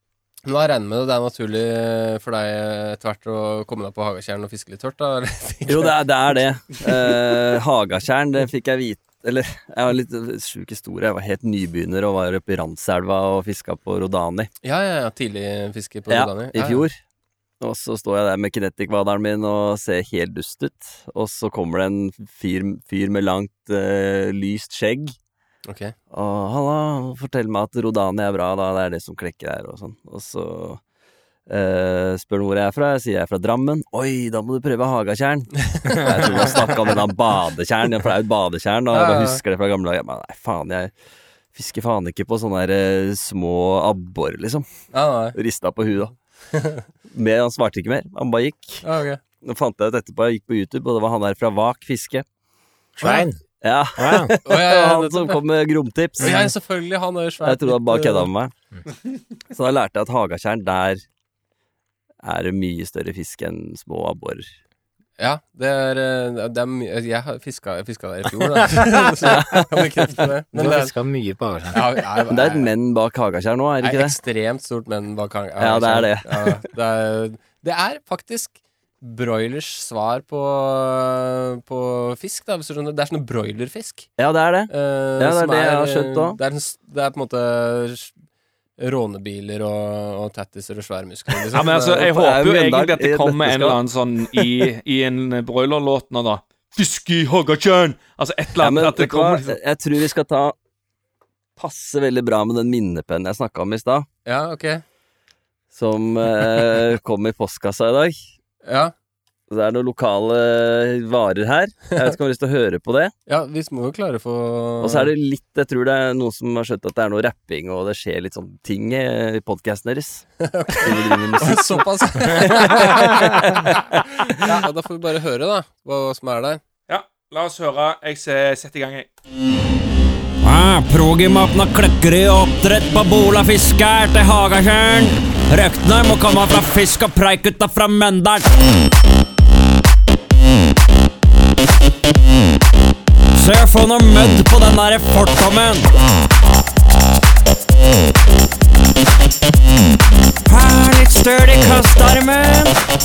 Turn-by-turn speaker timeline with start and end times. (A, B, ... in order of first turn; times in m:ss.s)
0:00.4-0:06.0 A
0:05.6-0:14.5 B
0:14.6-0:16.8 A
0:16.1-0:17.0 B
0:17.6-0:25.1 B
0:25.6-0:25.9 A
0:26.1-0:30.8 B
0:31.5-0:40.9 B
0:35.7-0:36.6 A
0:38.9-0:39.4 A
0:41.5-0:44.7 B
0:44.9-0:45.4 A
0:45.3-0:46.2 B
0:46.5-0:46.8 A
0:47.1-0:48.8 B
0:48.8-0:49.2 A
0:49.4-0:52.2 B
0:53.0-0:53.4 C
0:53.6-0:56.5 B
0:54.0-0:54.4 C
0:54.4-0:55.4 A
0:56.2-0:58.3 A
0:57.4-0:58.5 B
0:59.5-1:01.0 B
1:02.2-1:04.5 B
1:05.2-1:10.9 A
1:09.2-1:10.0 B
1:10.5-1:12.0 C
1:11.7-1:12.7 A
1:12.3-1:14.2 B
1:13.8-1:24.1 A
1:15.6-1:16.6 B
1:24.2-1:26.4 B
1:24.7-1:28.1 A
1:28.8-1:32.1 A
1:31.5-1:39.6 D
1:31.9-1:34.6 B
1:38.6-1:40.5 B
1:41.6-1:44.1 B
1:44.2-1:44.8 A
1:45.7-1:48.2 B
1:48.6-1:48.9 A
1:49.5-1:53.1 B
1:53.3-1:55.1 A
1:54.8-2:04.5 B
2:00.4-2:06.6 A
2:06.9-2:09.1 D
2:10.4-2:18.5 E
2:23.3-2:25.9 E
2:30.4-2:32.8 E